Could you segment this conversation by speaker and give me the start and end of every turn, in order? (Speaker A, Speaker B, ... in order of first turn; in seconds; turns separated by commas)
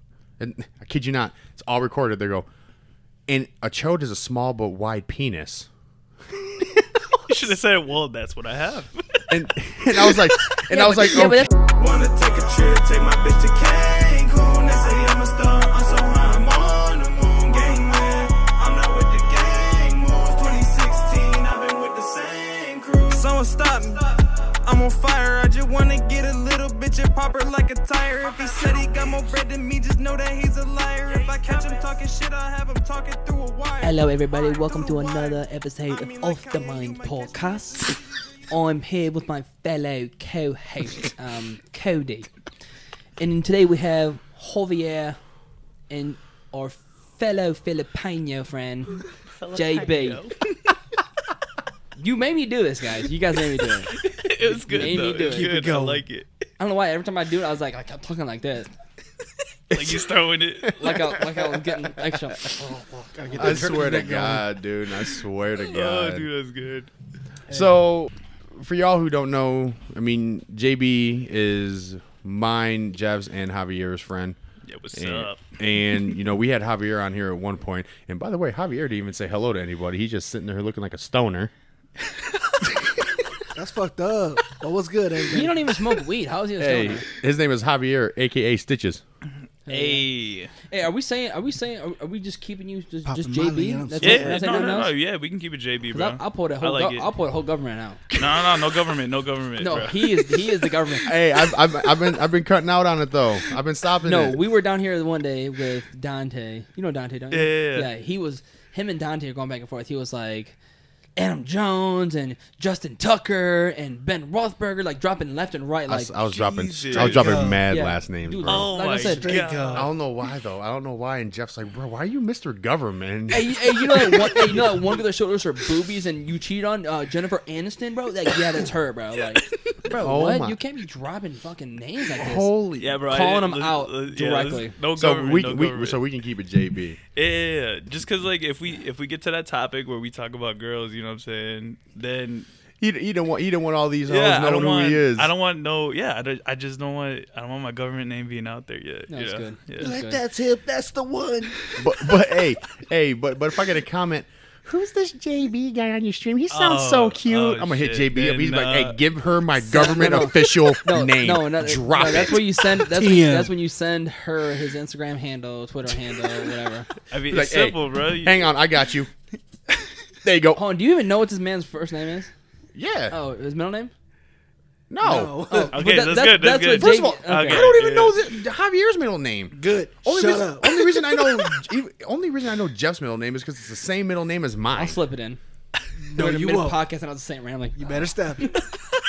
Speaker A: 0.4-2.5, Speaker A: 3.3-5.7, Speaker B: 7.3-9.2, Speaker A: 9.3-11.5, Speaker B: 10.0-10.4, Speaker C: 10.7-11.5, Speaker D: 11.6-38.5, Speaker C: 33.8-42.3, Speaker C: 43.2-45.2, Speaker C: 45.9-50.2, Speaker B: 49.3-50.4, Speaker C: 52.0-55.5, Speaker B: 53.9-56.3, Speaker E: 54.7-56.0, Speaker C: 56.6-58.7, Speaker B: 59.7-61.1, Speaker C: 60.8-62.5, Speaker E: 62.6-64.4, Speaker C: 63.3-64.4, Speaker A: 63.4-66.3, Speaker B: 65.6-66.9, Speaker A: 67.5-74.4, Speaker B: 74.7-75.4, Speaker A: 74.9-81.5, Speaker E: 83.5-85.7, Speaker C: 85.3-87.0, Speaker A: 86.6-89.0, Speaker C: 89.7-90.1, Speaker B: 89.7-90.5, Speaker C: 90.7-94.9, Speaker E: 93.0-94.5, Speaker B: 94.0-97.1, Speaker C: 95.9-98.0, Speaker A: 98.1-98.5, Speaker B: 98.2-100.5, Speaker C: 99.6-101.1, Speaker A: 101.0-104.4, Speaker C: 104.0-110.6, Speaker B: 107.3-107.9, Speaker C: 111.2-116.1, Speaker A: 115.9-118.7, Speaker B: 116.3-117.5, Speaker E: 116.9-117.7, Speaker C: 117.7-119.3, Speaker B: 118.5-119.9, Speaker E: 119.0-119.9, Speaker A: 119.7-123.5, Speaker C: 123.3-132.5, Speaker A: 124.4-124.8, Speaker A: 129.9-130.6, Speaker A: 132.2-133.0, Speaker B: 132.8-136.0, Speaker C: 133.1-134.8, Speaker A: 134.9-137.0, Speaker B: 137.2-142.5, Speaker A: 142.8-145.3, Speaker B: 144.1-150.0, Speaker C: 149.1-150.2, Speaker E: 149.8-151.8, Speaker A: 151.8-162.4, Speaker B: 156.5-159.0, Speaker C: 159.6-166.9, Speaker E: 162.7-163.5, Speaker B: 167.1-168.5, Speaker A: 167.3-169.1, Speaker A: 170.2-170.6, Speaker C: 170.6-172.3, Speaker A: 172.8-173.2, Speaker C: 173.1-173.9, Speaker A: 174.9-175.4, Speaker E: 175.0-175.8, Speaker C: 175.5-177.7, Speaker B: 175.7-178.2, Speaker A: 176.8-185.0, Speaker E: 179.5-181.0, Speaker C: 184.7-185.4, Speaker E: 186.0-186.8, Speaker C: 186.1-188.6, Speaker E: 187.8-188.5